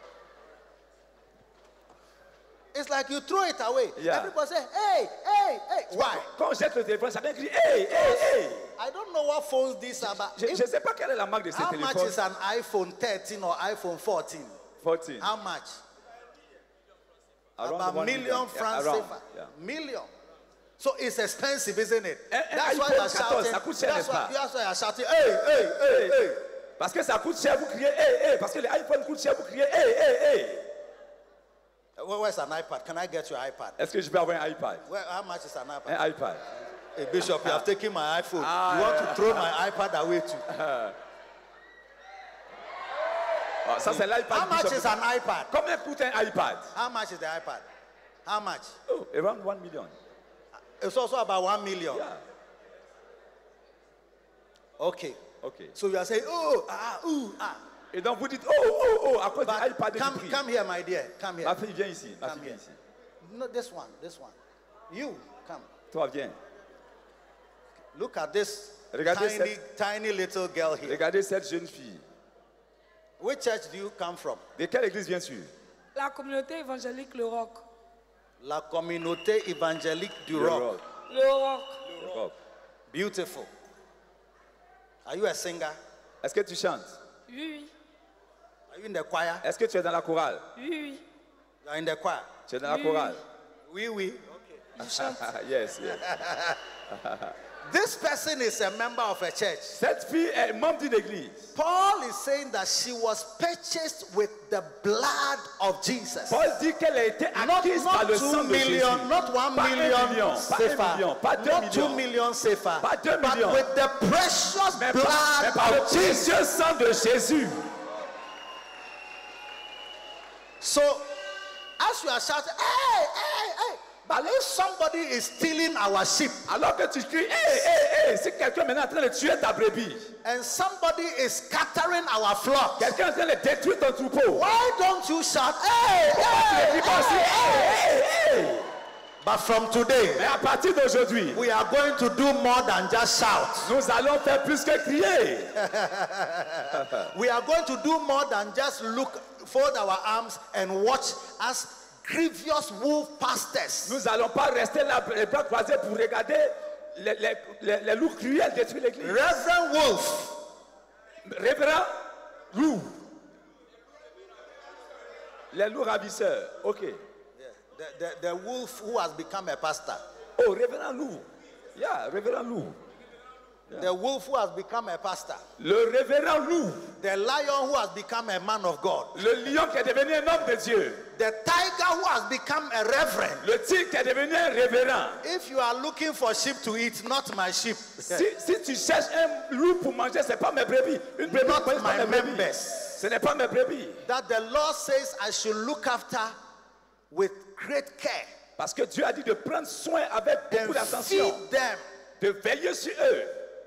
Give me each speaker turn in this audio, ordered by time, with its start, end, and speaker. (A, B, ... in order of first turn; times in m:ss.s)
0:02.7-0:06.3 A
0:04.0-0:04.3 B
0:05.9-0:08.7 B
0:07.9-0:10.7 A
0:10.0-0:12.2 B
0:11.5-0:14.6 A
0:14.8-0:15.3 B
0:15.2-0:15.8 A
0:17.6-0:19.5 B
0:17.6-0:20.1 A
0:20.8-0:26.4 A
0:22.3-0:24.3 B
0:25.8-0:26.3 B
0:26.8-0:30.7 B
0:32.0-0:33.8 A
0:33.8-0:34.9 B
0:34.9-0:36.0 A
0:35.9-0:36.4 B
0:37.0-0:40.4 A
0:37.4-0:37.6 B
0:38.4-0:39.5 B
0:40.5-0:41.0 B
0:43.6-0:45.0 B
0:43.9-0:45.5 A
0:45.5-0:46.7 B
0:46.7-0:47.6 A
0:48.3-0:48.8 A
0:48.9-0:50.0 B
0:50.8-0:52.1 A
0:51.9-0:52.2 B
0:54.8-0:55.2 A
0:55.4-0:55.8 B
0:55.8-0:57.6 A
0:57.9-1:00.4 B
0:59.4-1:01.6 A
1:01.4-1:02.8 B
1:02.2-1:02.6 A
1:03.2-1:04.4 A
1:04.9-1:05.7 A
1:05.9-1:06.4 B
1:07.9-1:11.0 A
1:08.9-1:09.6 B
1:10.8-1:12.0 B
1:13.2-1:14.4 A
1:14.6-1:15.5 B
1:16.0-1:17.6 C
1:18.4-1:20.7 A
1:20.3-1:20.8 B
1:21.1-1:21.9 C
1:22.0-1:22.4 B
1:22.9-1:23.5 A
1:25.0-1:25.8 A
1:26.2-1:27.0 B
1:27.3-1:27.7 C
1:28.7-1:29.4 A
1:29.4-1:30.5 B
1:30.6-1:31.0 C
1:31.6-1:32.3 A
1:32.5-1:33.2 B
1:32.6-1:33.2 C
1:33.7-1:34.3 A
1:34.8-1:35.3 C
1:34.8-1:36.1 B
1:35.9-1:36.6 A
1:36.9-1:37.4 B
1:37.6-1:39.8 A
1:39.7-1:41.5 B
1:41.6-1:46.4 A
1:46.3-1:52.0 B
1:47.4-1:56.4 A
1:52.8-1:53.7 B
1:54.8-1:57.7 B
2:00.6-2:01.2 A
2:01.8-2:06.5 A
2:06.5-2:10.1 B
2:10.2-2:12.9 A
2:12.8-2:14.5 B
2:14.3-2:17.8 A
2:15.8-2:18.7 B
2:19.2-2:20.3 A
2:20.2-2:21.4 B
2:21.3-2:23.7 A
2:23.6-2:25.6 B
2:25.6-2:34.0 A
2:26.7-2:27.1 B
2:33.9-2:39.3 B
2:39.0-2:40.4 A
2:41.2-2:43.1 B
2:45.5-2:47.0 B
2:47.4-2:50.0 A
2:50.4-2:52.8 B
2:53.8-2:55.4 A
2:55.6-2:57.0 B
2:57.0-2:59.2 A
2:59.2-3:01.1 B
3:01.2-3:03.5 A
3:03.4-3:05.2 B
3:05.2-3:08.2 A
3:08.1-3:14.0 B
3:11.2-3:13.0 A
3:14.0-3:16.4 A
3:17.1-3:18.3 A
3:18.6-3:21.4 B
3:20.5-3:21.8 A
3:22.2-3:23.5 B